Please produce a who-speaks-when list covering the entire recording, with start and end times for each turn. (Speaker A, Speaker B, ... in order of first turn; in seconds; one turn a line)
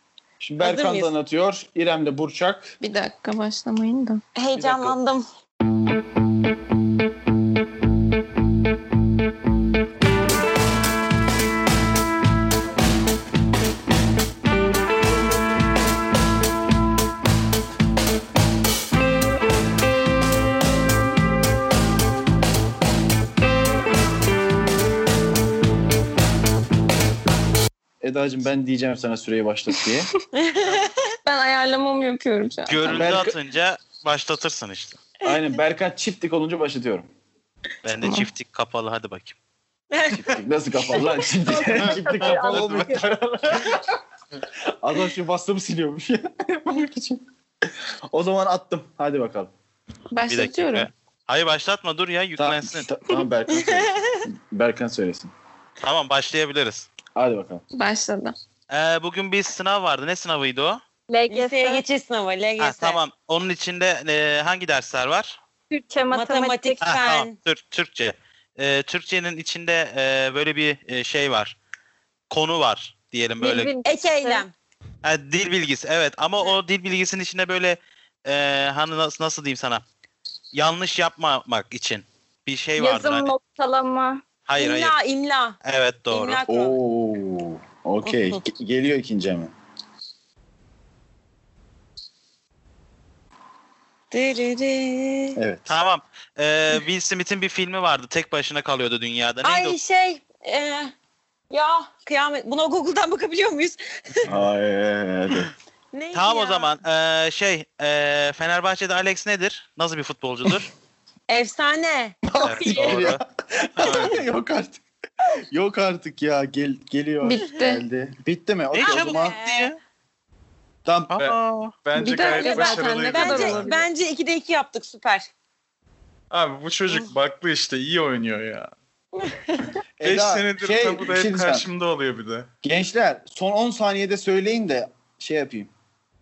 Speaker A: 0.4-2.8
Speaker B: 0.6-1.1
Speaker C: 2.8-4.2
Speaker B: 4.4-5.2
Speaker A: 4.5-5.0
Speaker A: 28.0-30.1
Speaker B: 30.4-31.1
Speaker C: 31.2-33.1
Speaker D: 32.6-35.0
Speaker A: 32.9-33.4
Speaker A: 35.2-37.1
Speaker D: 37.9-39.4
Speaker C: 37.9-38.3
Speaker B: 39.9-40.4
Speaker A: 40.1-44.0
Speaker E: 41.5-43.0
Speaker F: 41.8-43.0
Speaker A: 44.8-47.2
Speaker A: 48.1-49.5
Speaker C: 50.1-50.9
Speaker D: 50.3-52.9
Speaker A: 52.4-55.3
Speaker B: 53.5-54.2
Speaker D: 55.8-56.9
Speaker A: 57.1-57.6
Speaker C: 57.7-58.4
Speaker D: 58.7-60.8
Speaker E: 61.1-61.8
Speaker B: 61.3-63.0
Speaker D: 62.6-65.4
Speaker E: 65.7-67.1
Speaker B: 66.1-67.4
Speaker D: 66.8-71.6
Speaker D: 72.3-73.7
Speaker E: 73.4-74.5
Speaker B: 73.8-74.5
Speaker D: 75.0-79.8
Speaker D: 80.5-83.3
Speaker E: 82.8-84.2
Speaker D: 84.5-85.0
Speaker B: 84.6-85.6
Speaker D: 85.6-86.4
Speaker B: 86.1-86.8
Speaker A: 86.5-89.5
Speaker B: 88.0-88.4
Speaker B: 94.1-95.4
Speaker A: 95.4-95.8
Speaker D: 95.7-99.8
Speaker B: 99.4-100.9
Speaker B: 101.5-104.3
Speaker A: 104.2-105.5
Speaker B: 105.9-106.7
Speaker D: 106.1-110.7
Speaker B: 111.3-112.2
Speaker A: 112.2-114.8
Speaker D: 112.4-113.2
Speaker E: 112.5-113.1
Speaker F: 113.8-114.3
Speaker A: 115.5-119.4
Speaker C: 117.2-117.8
Speaker D: 118.8-119.8
Speaker B: 118.8-119.7
Speaker A: 120.8-121.2
Speaker D: 121.1-121.8
Speaker F: 121.2-123.8
Speaker C: 122.0-123.9
Speaker E: 122.3-122.6
Speaker B: 122.4-125.3
Speaker F: 126.3-128.7
Speaker B: 129.2-129.7
Speaker A: 130.0-131.7
Speaker F: 130.0-132.5
Speaker A: 132.6-135.7